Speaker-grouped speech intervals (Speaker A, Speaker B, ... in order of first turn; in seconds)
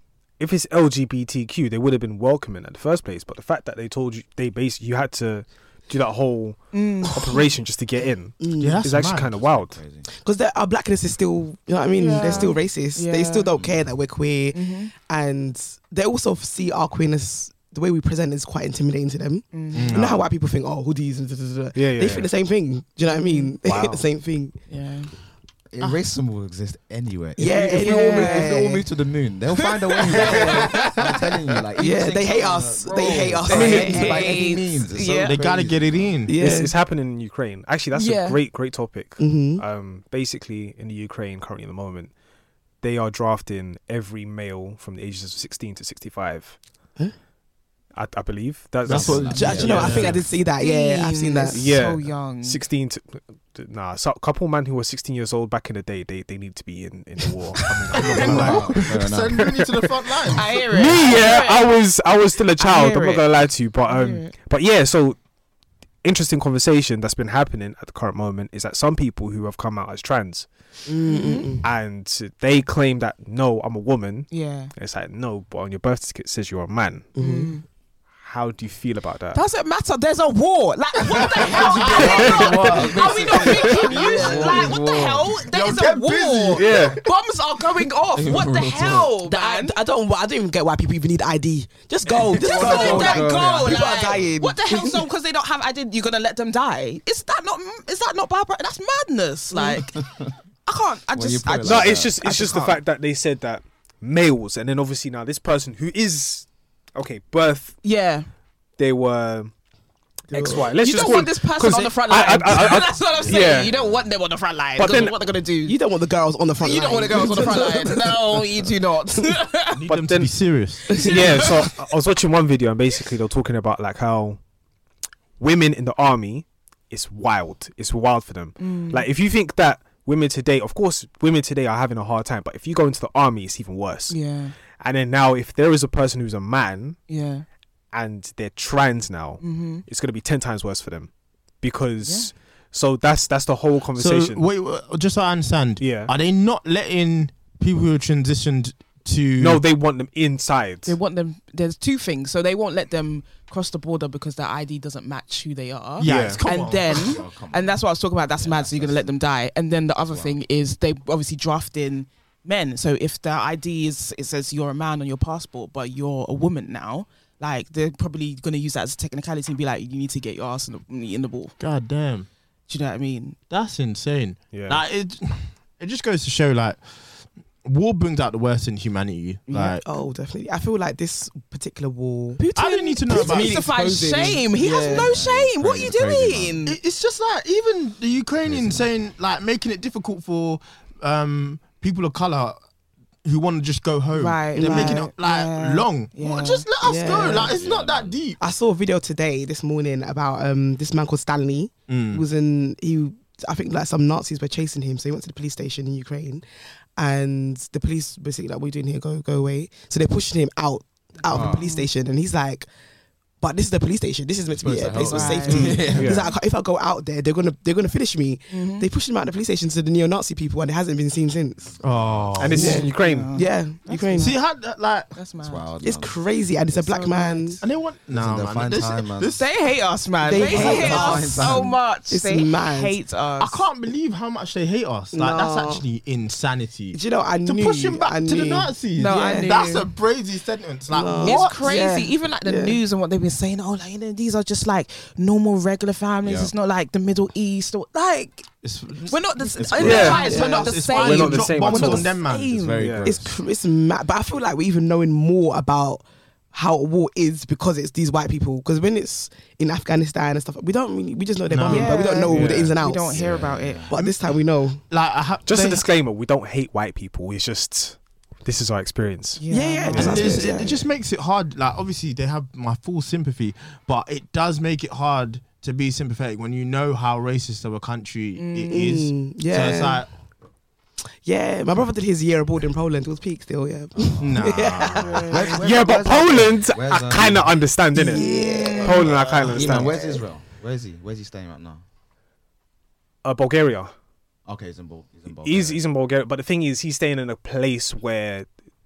Speaker A: 0.4-9.8, 21.7-22.3, 23.6-24.0, 36.4-42.1, 42.8-46.6, 47.9-49.9, 51.5-59.9, 60.5-65.2, 66.0-70.5, 71.6-77.1, 78.2-79.4, 82.0-82.4, 83.4-83.8, 86.5-87.0, 101.6-107.8, 108.8-109.5, 110.3-113.7, 114.8-115.2, 119.9-120.3, 120.9-124.4, 125.4-134.2, 134.8-137.0, 137.9-141.1, 141.6-144.4, 145.8-146.1, 149.4-151.0, 156.0-156.4, 174.5-174.8, 215.6-216.3, 222.4-223.3, 249.8-250.4, 250.9-252.1, 252.8-253.1, 262.3-262.7, 265.4-270.2, 285.6-288.2, 288.8-289.9, 293.2-293.9, 295.4-298.4
Speaker B: 6.7-7.4, 11.9-13.5, 14.5-14.9, 19.5-20.0, 23.1-23.5, 24.7-25.1, 27.4-28.5, 29.6-31.0, 32.9-35.4, 37.9-38.4, 49.7-52.6, 60.3-61.7, 62.6-63.2, 63.9-64.3, 71.1-71.6, 74.3-74.7, 77.2-77.6, 79.3-89.8, 92.0-100.0, 100.7-102.8, 107.8-108.3, 110.7-115.8, 116.6-119.8, 120.9-121.5, 128.6-129.0, 134.1-134.6, 137.1-137.4, 139.4-139.8, 142.0-142.3, 150.8-171.5, 172.7-173.4, 179.5-179.7, 182.4-186.8, 194.1-196.7, 211.3-211.9, 215.0-215.8, 218.5-218.8, 222.5-224.4, 225.1-225.6, 226.7-227.6, 229.3-233.7, 238.9-239.8, 241.2-248.4, 249.1-253.0, 261.6-263.9, 269.4-270.4, 278.4-278.9, 285.0-285.5, 288.0-289.0
Speaker C: 8.4-8.8, 10.1-24.6, 27.4-28.8, 31.8-34.4, 36.2-36.7, 39.2-39.6, 49.3-51.7, 70.8-71.6, 77.1-77.5, 83.9-84.7, 89.2-95.0, 110.3-111.0, 115.6-118.0, 179.5-182.4, 183.1-185.1, 194.6-195.1, 196.8-197.6, 198.4-206.4, 207.0-212.7, 213.4-221.7, 222.5-224.3, 225.8-227.6, 230.2-232.9, 235.1-235.8, 236.9-239.7, 240.9-242.8, 250.1-250.9, 253.0-263.1, 263.9-264.8, 269.5-270.8, 278.7-280.0, 281.2-285.5, 287.9-290.2
Speaker D: 8.6-9.3, 19.7-20.2, 33.5-34.0, 35.2-36.3, 48.8-50.2, 57.7-60.5, 81.3-84.6, 85.5-87.0, 119.7-121.0, 143.9-149.6, 156.0-157.2, 171.6-172.3, 173.5-176.8, 177.6-179.8, 182.5-183.6, 186.7-192.6, 193.2-198.4, 201.9-202.2, 221.8-222.8, 224.2-225.1, 227.6-229.4, 233.4-241.7, 248.6-252.6, 261.5-262.1, 263.9-264.2, 264.9-265.8, 269.9-280.1, 284.2-285.3
Speaker E: 9.4-10.1, 13.5-13.8, 25.7-36.2, 48.9-50.2, 58.0-59.4, 81.3-85.4, 88.1-89.2, 92.2-94.3, 99.8-100.3, 101.1-102.1, 113.1-114.1, 156.8-159.1, 160.0-160.4, 184.8-186.7, 188.4-188.9, 197.3-198.2, 211.3-211.7, 214.5-216.3, 221.6-222.5, 225.4-226.2, 228.1-229.4, 230.2-231.8, 246.2-246.5, 249.5-250.5, 251.8-253.4, 263.1-263.9, 283.9-287.7, 288.8-291.8, 294.4-295.8